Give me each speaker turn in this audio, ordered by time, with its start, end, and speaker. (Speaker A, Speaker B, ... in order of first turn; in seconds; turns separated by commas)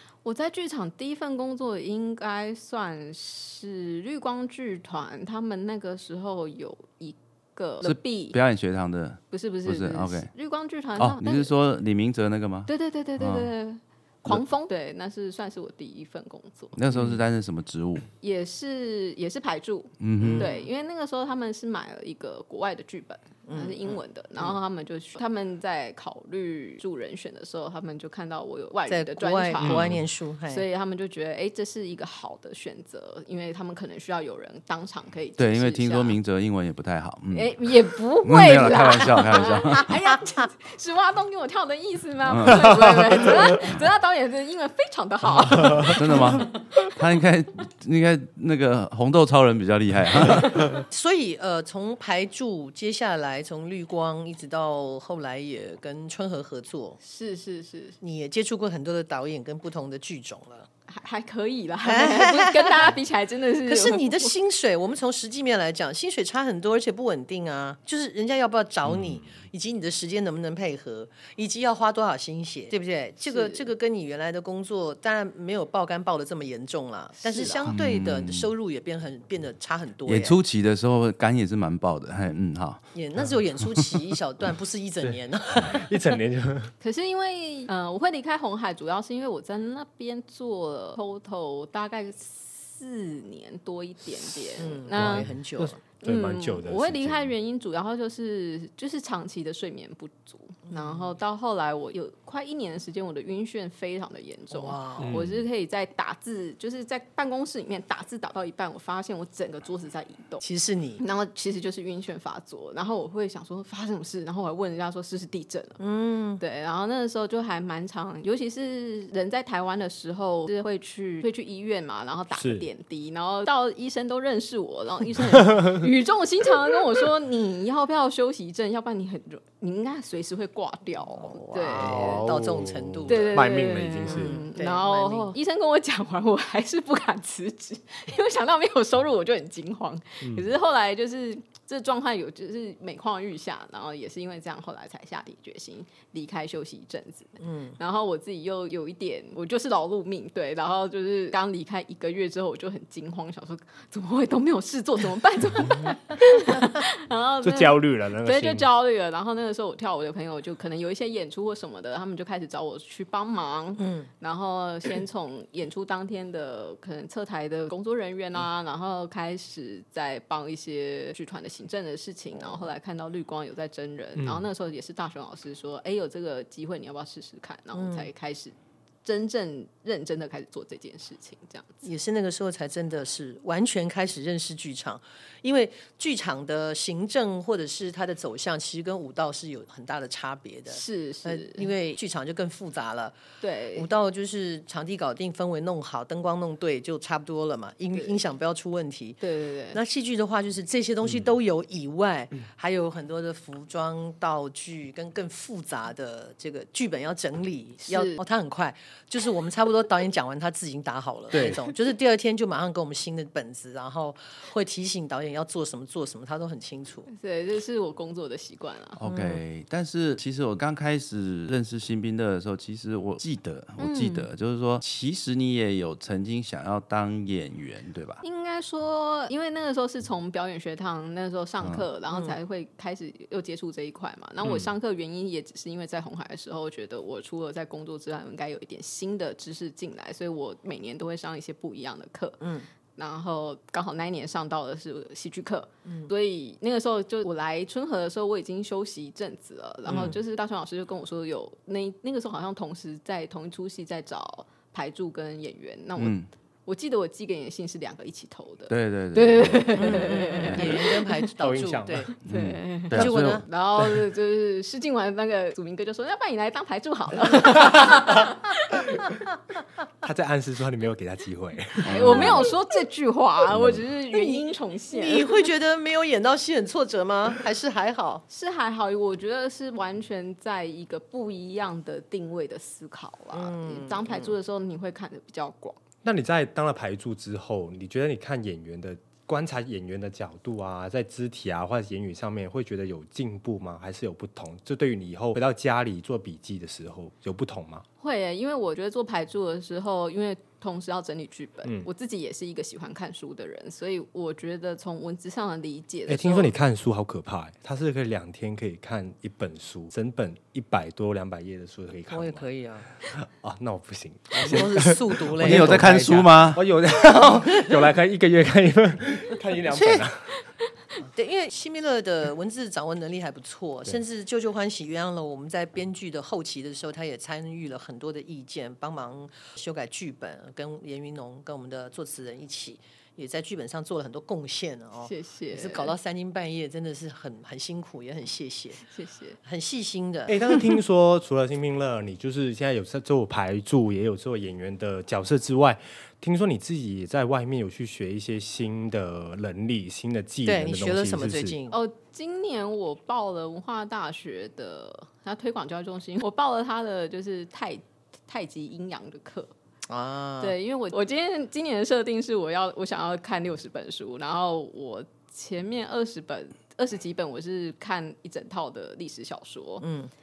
Speaker A: 0.2-8.4, Speaker B: 7.8-10.3, Speaker A: 9.3-11.5, Speaker B: 11.0-13.5, Speaker A: 12.7-16.8, Speaker B: 16.8-18.1, Speaker A: 18.2-29.9, Speaker B: 20.0-20.5, Speaker C: 20.2-20.6, Speaker C: 23.5-24.6, Speaker C: 28.9-30.6, Speaker D: 29.6-30.0, Speaker A: 30.5-36.2, Speaker B: 35.4-37.7, Speaker A: 37.3-46.9, Speaker B: 38.2-39.9, Speaker C: 40.1-40.5, Speaker B: 42.3-42.9, Speaker D: 45.4-45.9, Speaker B: 45.9-50.8, Speaker C: 50.6-57.0, Speaker A: 57.0-58.0, Speaker C: 58.0-60.7, Speaker A: 60.9-64.3, Speaker C: 61.8-63.0, Speaker C: 63.7-80.4, Speaker D: 68.9-69.3, Speaker A: 73.2-73.7, Speaker A: 77.2-77.7, Speaker B: 77.7-78.5, Speaker B: 80.1-82.8, Speaker C: 83.0-86.2, Speaker D: 85.6-86.7, Speaker A: 86.8-95.3, Speaker C: 94.6-95.8, Speaker D: 95.0-97.3, Speaker A: 96.0-110.4, Speaker C: 100.7-101.1, Speaker C: 104.5-105.2, Speaker D: 105.0-105.4, Speaker C: 110.4-111.0, Speaker A: 111.0-115.8, Speaker C: 115.8-116.4, Speaker A: 116.4-132.2, Speaker D: 122.3-122.7, Speaker D: 125.5-125.8, Speaker C: 131.3-135.3, Speaker D: 131.7-134.4, Speaker A: 133.1-181.8, Speaker D: 140.2-140.5, Speaker C: 147.4-147.8, Speaker D: 157.4-158.7, Speaker C: 163.8-164.1, Speaker C: 172.4-172.7, Speaker D: 174.2-174.4, Speaker C: 177.7-178.1, Speaker C: 181.8-193.2, Speaker A: 190.7-191.7, Speaker A: 193.4-193.9, Speaker C: 193.7-199.2, Speaker A: 197.9-198.2, Speaker A: 199.2-199.8, Speaker C: 199.7-217.1, Speaker A: 207.8-208.2, Speaker D: 211.3-211.6, Speaker A: 217.1-219.0, Speaker B: 219.0-228.2, Speaker C: 219.1-219.4, Speaker A: 223.8-224.3, Speaker A: 228.2-242.4, Speaker B: 231.6-231.9, Speaker D: 234.4-234.7, Speaker C: 242.4-242.7, Speaker A: 243.0-256.1, Speaker C: 249.9-250.2, Speaker B: 256.0-256.3, Speaker A: 256.7-261.3, Speaker B: 258.7-260.7, Speaker C: 259.8-262.1, Speaker D: 261.4-262.1, Speaker A: 262.2-269.1, Speaker B: 262.3-263.5, Speaker C: 262.9-263.4, Speaker D: 270.0-272.4, Speaker B: 271.8-272.5, Speaker A: 271.8-275.5, Speaker C: 274.1-278.2, Speaker A: 278.3-285.8, Speaker C: 283.3-284.4, Speaker D: 286.0-297.9, Speaker A: 298.0-306.5, Speaker D: 306.1-312.5, Speaker C: 312.1-312.9, Speaker D: 313.1-320.3, Speaker C: 314.3-316.0, Speaker B: 315.4-316.6, Speaker C: 319.7-320.1, Speaker C: 321.0-338.8, Speaker A: 335.0-335.9, Speaker A: 338.8-339.4, Speaker C: 339.4-340.6, Speaker D: 340.3-351.6, Speaker C: 350.4-351.8, Speaker A: 351.7-359.5, Speaker C: 359.9-360.6, Speaker A: 360.4-369.9, Speaker C: 369.8-370.1